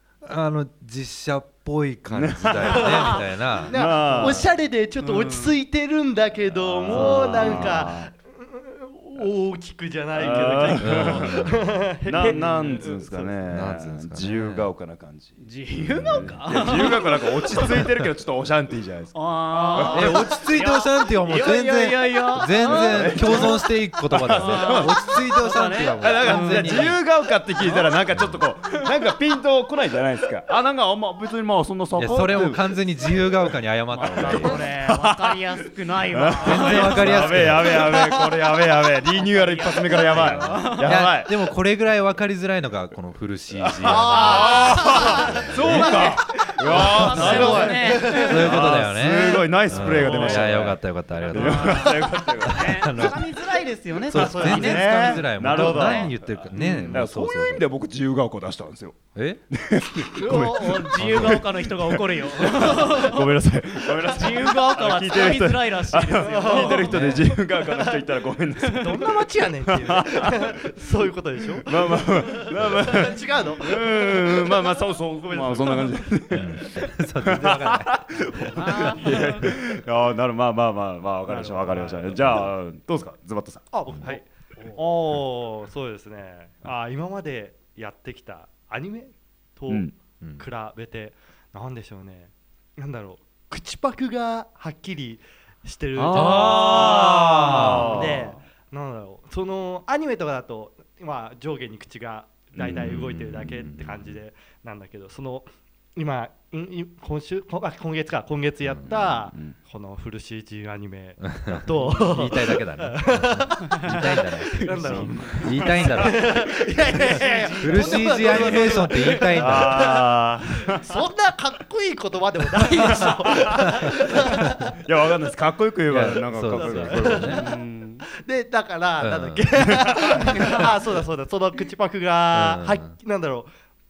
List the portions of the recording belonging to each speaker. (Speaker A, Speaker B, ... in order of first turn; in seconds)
Speaker A: 0.2-3.8, 7.0-7.7, 10.8-11.9, 13.5-14.7, 16.0-16.3, 19.9-27.0, 28.1-28.4, 31.9-34.7, 36.4-37.8, 40.1-46.0, 46.7-53.3, 54.1-57.6, 59.1-59.4, 61.0-61.4, 66.9-67.3, 76.3-79.2, 83.9-84.2, 90.2-90.5, 96.1-98.1, 102.6-104.2, 108.6-109.3, 111.3-116.4, 117.6-119.9, 125.9-127.4, 129.0-129.8, 132.3-133.0
Speaker B: 2.1-3.1, 3.7-4.5, 6.6-8.1, 10.2-19.2, 19.7-20.2, 22.6-25.0, 26.0-32.7, 34.1-35.4, 36.1-41.4, 43.6-52.8, 54.1-70.6, 71.6-83.7, 89.7-89.9, 96.0-98.4, 102.6-103.0, 109.3-109.6, 119.4-121.0, 123.0-123.4, 124.7-127.4
Speaker C: 2.6-13.4, 19.6-20.1, 44.1-45.2, 47.0-48.3, 54.1-55.0, 66.2-67.5, 68.8-76.0, 83.7-124.7, 126.5-127.6, 128.2-133.5
Speaker D: 4.0-4.5, 5.0-5.6, 7.0-7.4, 12.1-13.0, 15.4-17.8, 19.1-23.7, 24.3-26.9, 33.9-38.3, 39.1-41.0, 43.8-48.8, 49.8-50.6, 51.3-57.0, 60.2-63.3, 64.0-67.1, 68.6-69.1, 78.6-79.4, 81.3-82.5, 84.5-84.9, 113.7-119.3, 122.8-123.4, 124.0-124.5, 127.2-128.1